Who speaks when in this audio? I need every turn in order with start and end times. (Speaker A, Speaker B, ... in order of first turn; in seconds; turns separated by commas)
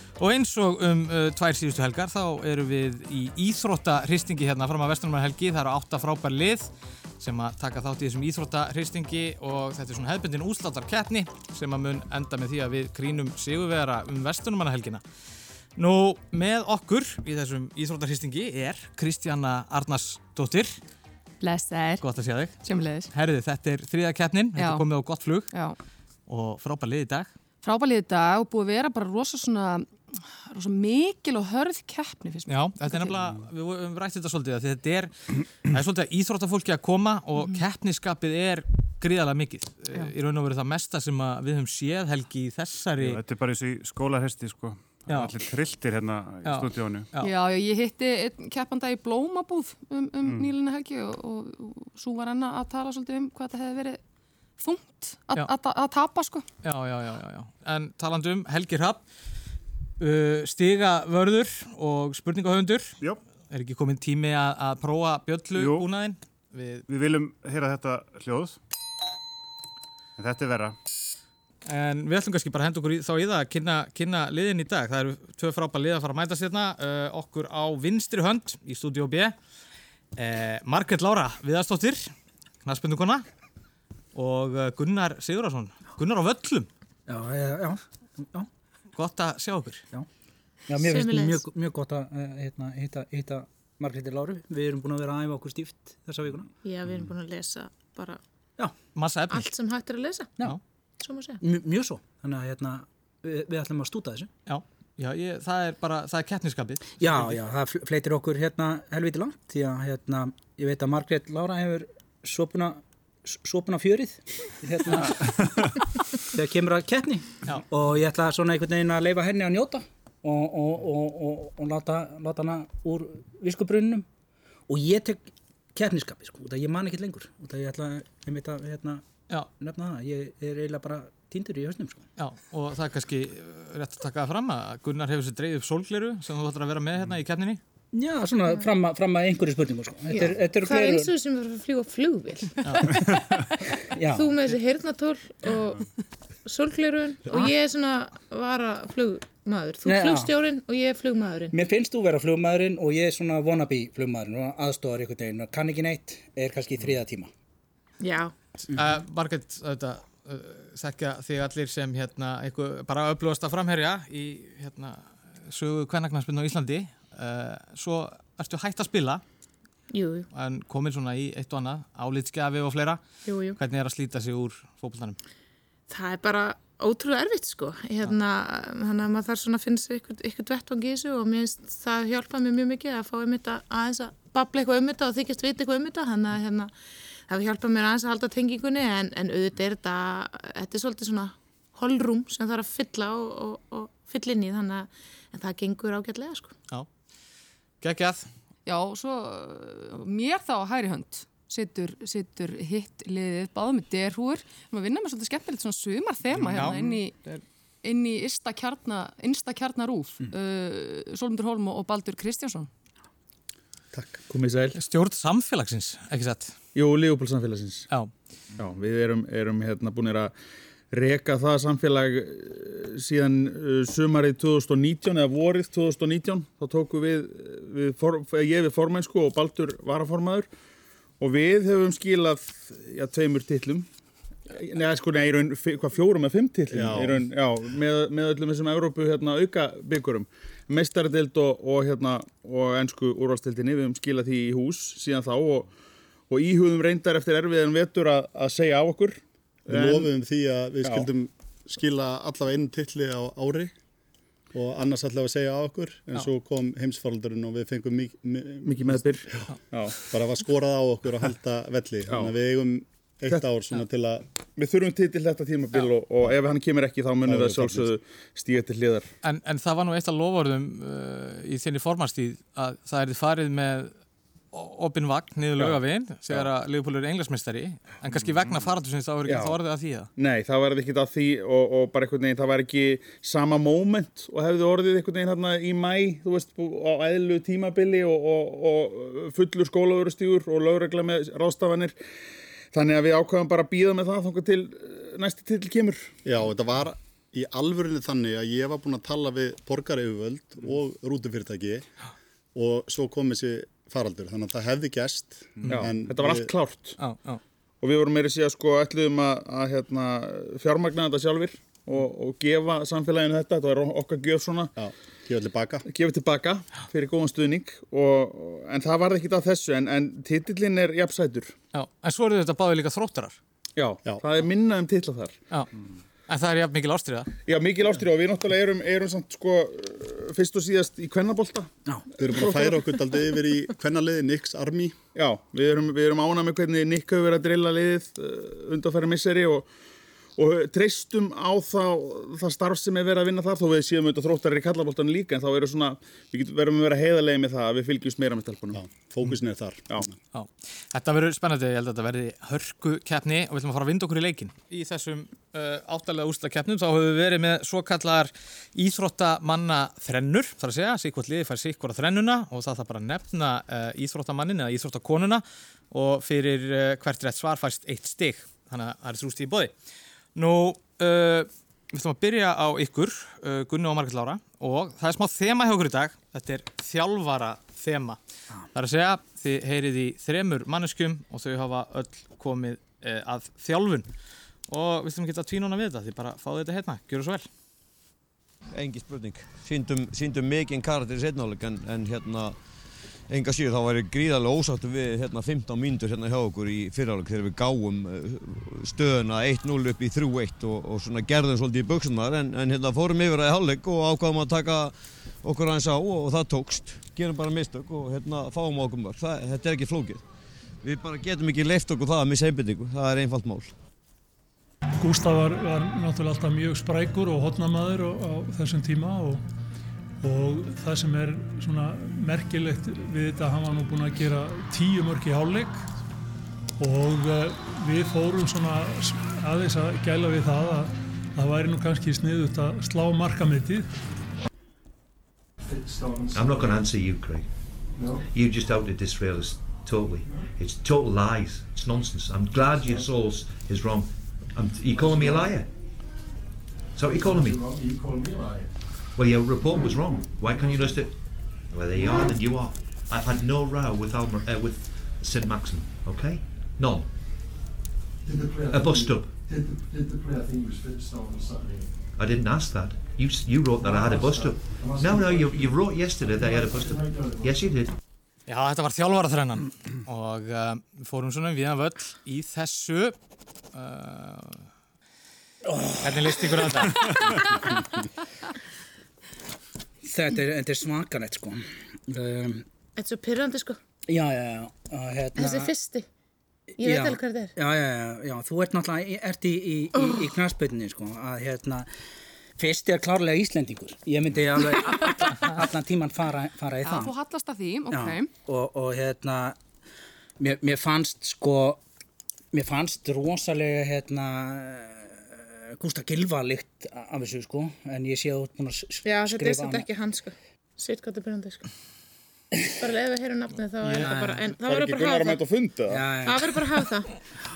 Speaker A: 0.2-15.0, Speaker A: 15.8-20.8, Speaker B: 21.4-22.0, Speaker A: 22.0-25.5, Speaker B: 22.6-23.1, Speaker B: 24.5-24.9, Speaker B: 25.5-25.8, Speaker A: 26.3-27.3, Speaker B: 27.6-33.2, Speaker A: 32.5-43.2, Speaker C: 43.0-47.1, Speaker A: 45.1-45.3, Speaker A: 46.4-47.3, Speaker B: 47.2-54.0, Speaker C: 50.2-50.5, Speaker B: 54.6-56.5, Speaker A: 56.6-59.0, Speaker A: 60.0-63.0, Speaker A: 63.5-66.9, Speaker C: 65.5-65.9, Speaker C: 66.9-68.6, Speaker C: 70.2-70.8, Speaker A: 71.6-79.3, Speaker A: 80.2-82.1, Speaker A: 82.6-83.2, Speaker A: 84.1-86.7, Speaker D: 87.1-88.5, Speaker A: 88.9-89.8, Speaker D: 90.7-96.5, Speaker E: 90.8-91.4, Speaker E: 96.6-98.2, Speaker A: 98.9-99.4, Speaker E: 99.3-100.3, Speaker E: 101.0-101.4, Speaker D: 101.4-104.3, Speaker A: 104.5-107.4, Speaker D: 107.0-115.7, Speaker D: 116.3-124.0, Speaker D: 124.7-129.0, Speaker D: 129.6-132.0, Speaker A: 132.2-137.6, Speaker D: 137.9-141.1, Speaker E: 140.1-143.2, Speaker D: 143.9-144.4, Speaker E: 144.1-145.9, Speaker E: 146.4-151.5, Speaker D: 149.8-150.3, Speaker D: 151.5-157.3, Speaker E: 158.0-158.3, Speaker A: 158.7-169.2, Speaker E: 169.9-170.3, Speaker A: 170.3-173.0, Speaker E: 173.2-173.6, Speaker A: 173.6-175.2, Speaker E: 175.9-186.7, Speaker E: 187.3-196.5, Speaker A: 197.8-198.3, Speaker B: 198.7-207.2, Speaker C: 206.4-206.6, Speaker A: 206.5-207.4, Speaker B: 207.8-212.7, Speaker F: 214.3-214.8, Speaker A: 214.7-216.5, Speaker F: 216.7-217.8, Speaker F: 218.6-220.3, Speaker F: 220.9-230.5, Speaker F: 231.2-233.9, Speaker F: 234.5-245.7, Speaker G: 236.7-237.2, Speaker F: 246.3-250.1, Speaker G: 249.7-253.7, Speaker G: 254.5-259.5, Speaker F: 258.6-260.0, Speaker G: 260.0-264.2, Speaker F: 264.6-269.1, Speaker G: 267.2-267.9, Speaker A: 269.2-273.9, Speaker A: 274.5-280.1, Speaker F: 275.6-276.4, Speaker C: 278.0-278.7, Speaker F: 279.2-279.6, Speaker F: 280.1-291.9, Speaker F: 292.7-296.1, Speaker G: 296.2-301.9, Speaker G: 302.5-306.5, Speaker F: 305.6-307.0, Speaker A: 307.0-307.4, Speaker F: 307.8-314.7, Speaker G: 314.8-315.8, Speaker F: 315.9-321.5, Speaker A: 321.7-323.4, Speaker F: 323.8-325.4, Speaker A: 326.3-327.3, Speaker F: 327.4-332.8, Speaker G: 332.2-335.0, Speaker F: 335.1-339.7, Speaker F: 340.4-348.8, Speaker G: 348.7-350.1, Speaker A: 350.3-369.7, Speaker A: 370.3-378.2, Speaker A: 378.7-384.1, Speaker A: 384.7-387.5, Speaker H: 388.7-392.6, Speaker H: 393.3-410.2, Speaker H: 410.8-413.7, Speaker I: 415.0-419.4, Speaker I: 420.2-425.9, Speaker I: 426.8-433.9, Speaker J: 436.3-437.5, Speaker J: 438.3-445.7, Speaker J: 446.9-447.6, Speaker C: 447.4-448.3, Speaker J: 449.1-457.1, Speaker C: 458.5-458.8, Speaker J: 458.7-459.3, Speaker C: 460.0-461.8, Speaker J: 462.1-467.9, Speaker C: 463.9-465.7, Speaker C: 466.5-467.2, Speaker A: 468.5-473.2, Speaker A: 473.7-474.6, Speaker D: 475.6-476.7, Speaker A: 476.0-477.2, Speaker B: 477.0-477.6, Speaker D: 480.0-482.6, Speaker E: 483.0-483.8, Speaker D: 484.1-485.7, Speaker E: 485.4-486.0, Speaker E: 486.8-487.5, Speaker D: 486.8-491.9, Speaker E: 489.9-490.2, Speaker D: 492.6-497.1, Speaker B: 496.8-498.3, Speaker D: 497.9-499.6, Speaker D: 500.4-501.8, Speaker D: 502.5-509.9, Speaker E: 509.0-511.7, Speaker E: 512.8-515.4, Speaker A: 513.8-514.1, Speaker D: 514.0-514.4, Speaker F: 514.5-516.0, Speaker D: 515.9-516.8, Speaker E: 516.2-517.1